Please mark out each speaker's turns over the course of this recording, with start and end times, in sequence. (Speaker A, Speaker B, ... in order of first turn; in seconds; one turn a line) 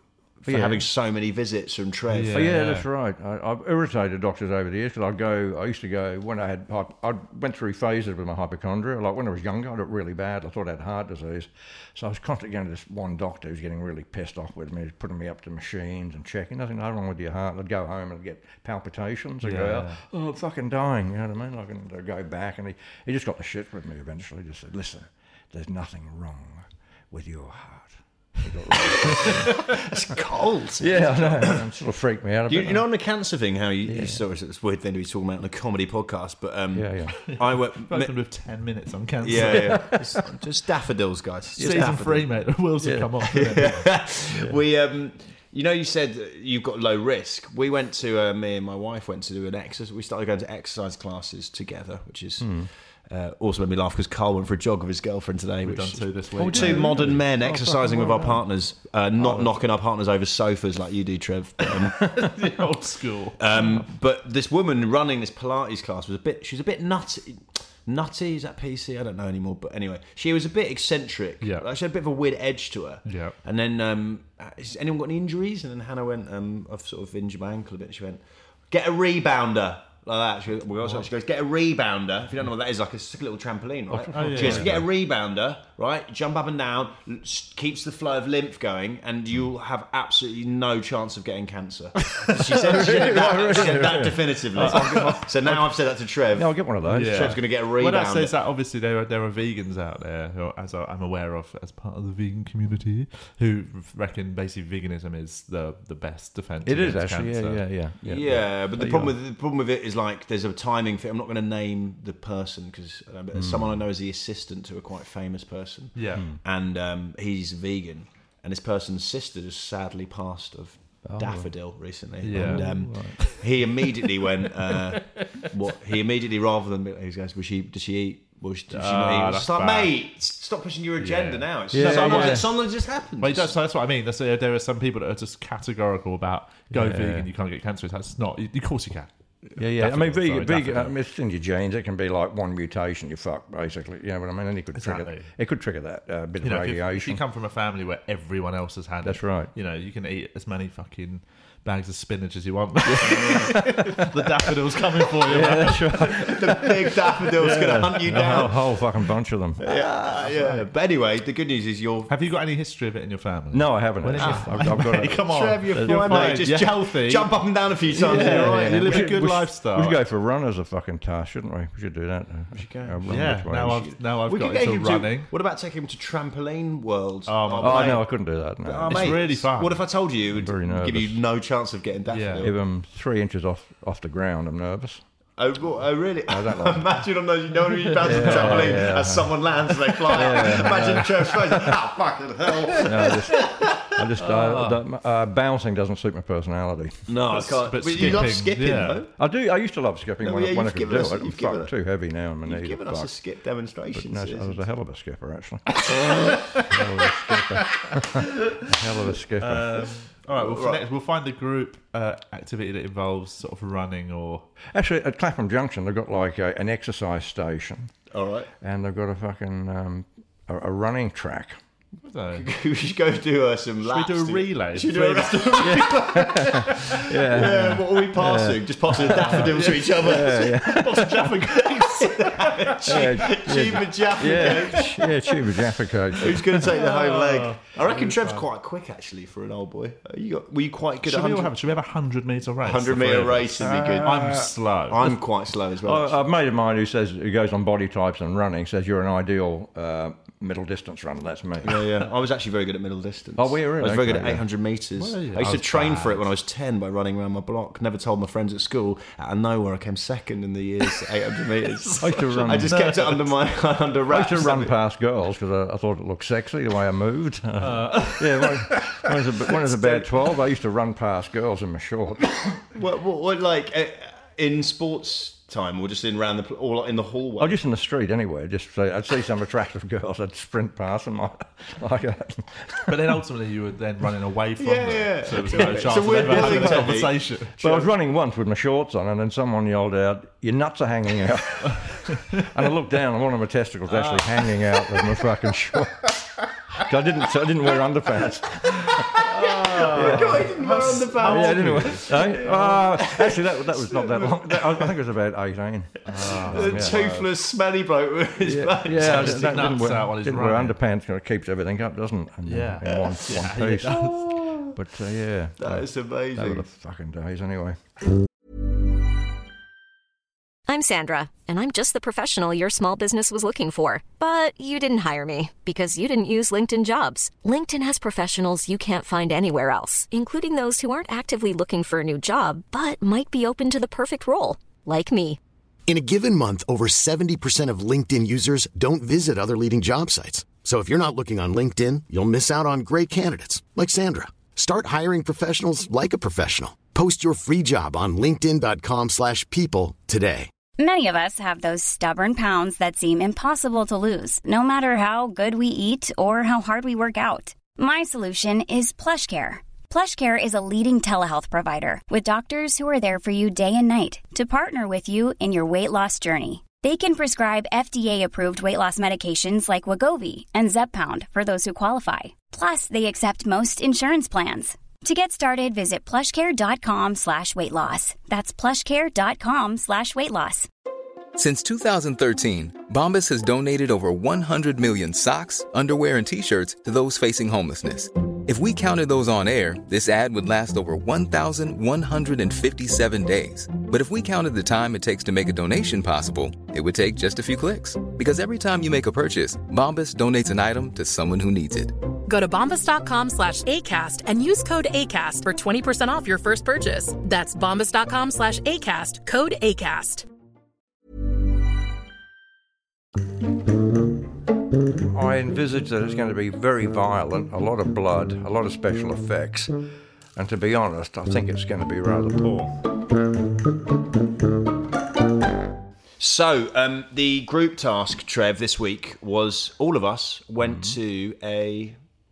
Speaker A: 0.4-2.5
Speaker B: 0.5-0.9
Speaker C: 2.1-2.9
Speaker B: 2.3-30.2
Speaker C: 19.4-20.0
Speaker A: 29.1-31.6
Speaker B: 30.8-32.8
Speaker A: 32.5-38.1
Speaker B: 33.9-34.2
Speaker B: 36.7-37.3
Speaker C: 37.3-40.0
Speaker A: 39.2-42.3
Speaker B: 39.4-40.2
Speaker C: 41.6-43.9
Speaker B: 42.8-43.1
Speaker A: 43.3-62.3
Speaker B: 44.3-44.6
Speaker B: 52.4-52.7
Speaker C: 55.6-57.3
Speaker B: 56.4-58.5
Speaker B: 59.2-59.5
Speaker C: 62.0-63.8
Speaker A: 63.4-98.3
Speaker C: 71.4-71.7
Speaker C: 73.0-73.4
Speaker B: 83.9-84.9
Speaker C: 84.1-84.8
Speaker B: 92.5-95.7
Speaker C: 94.5-95.3
Speaker B: 96.3-97.4
Speaker C: 96.9-107.6
Speaker B: 106.7-109.2
Speaker A: 108.0-133.5
Speaker B: 113.3-113.9
Speaker C: 116.0-116.3
Speaker B: 116.2-116.4
Speaker B: 121.0-121.5
Speaker C: 122.2-123.5
Speaker B: 122.3-123.2
Speaker C: 128.7-129.9
Speaker C: 131.0-132.6
Speaker B: 131.7-132.5
Speaker C: 133.2-140.9
Speaker B: 136.7-137.3
Speaker B: 139.6-147.2
Speaker C: 144.8-145.3
Speaker C: 146.4-156.7
Speaker B: 149.0-149.5
Speaker B: 152.9-154.5
Speaker B: 155.2-160.2
Speaker A: 156.2-158.7
Speaker A: 159.6-162.1
Speaker C: 162.1-170.0
Speaker B: 163.5-166.6
Speaker A: 164.2-169.2
Speaker B: 167.9-173.9
Speaker A: 172.5-178.1
Speaker C: 173.1-175.3
Speaker C: 177.3-178.0
Speaker B: 177.6-179.4
Speaker A: 178.6-182.5
Speaker C: 178.9-179.8
Speaker B: 180.3-181.2
Speaker C: 182.1-182.5
Speaker B: 182.4-185.0
Speaker A: 185.4-194.0
Speaker B: 186.3-187.0
Speaker C: 187.9-189.1
Speaker B: 188.0-191.8
Speaker C: 190.1-191.1
Speaker C: 192.8-193.1
Speaker B: 192.8-198.3
Speaker C: 194.2-194.8
Speaker A: 197.1-199.1
Speaker C: 197.3-199.1
Speaker B: 199.2-203.1
Speaker A: 200.2-201.7
Speaker A: 202.4-204.6
Speaker B: 203.9-205.9
Speaker C: 205.9-206.7
Speaker A: 205.9-206.5
Speaker B: 206.4-209.9
Speaker C: 209.4-214.5
Speaker A: 210.3-210.8
Speaker B: 214.7-217.9
Speaker A: 218.1-218.5
Speaker B: 218.6-221.6
Speaker C: 222.0-222.5
Speaker A: 222.3-235.1
Speaker C: 223.8-226.9
Speaker B: 225.6-231.4
Speaker C: 228.9-234.9
Speaker B: 232.9-236.8
Speaker A: 236.2-241.5
Speaker C: 236.6-238.4
Speaker C: 241.0-245.0
Speaker A: 242.6-246.2
Speaker B: 243.6-245.2
Speaker B: 245.8-251.9
Speaker A: 251.6-264.7
Speaker B: 253.4-254.4
Speaker C: 255.0-256.3
Speaker C: 261.8-263.3
Speaker B: 262.0-262.9
Speaker B: 264.1-272.6
Speaker C: 267.6-269.1
Speaker A: 272.7-277.6
Speaker B: 277.4-283.2
Speaker C: 282.9-287.7
Speaker A: 284.6-287.8
Speaker B: 285.5-296.2
Speaker C: 293.9-294.6
Speaker B: 296.8-299.2
Speaker C: 299.1-302.8
Speaker A: 299.2-304.9
Speaker B: 299.8-300.5
Speaker B: 301.2-307.3
Speaker C: 306.1-307.2
Speaker A: 306.2-309.8
Speaker B: 308.4-314.2
Speaker C: 308.9-310.8
Speaker C: 312.5-314.4
Speaker A: 312.9-313.2
Speaker A: 313.9-314.7
Speaker B: 314.7-317.8
Speaker A: 315.6-316.6
Speaker D: 320.7-335.4
Speaker E: 335.9-350.5
Speaker F: 350.8-380.7
Speaker G: 381.4-402.0
Speaker H: 402.3-410.3
Speaker B: 415.1-419.8
Speaker B: 420.4-422.8
Speaker A: 426.2-432.0
Speaker B: 430.6-431.0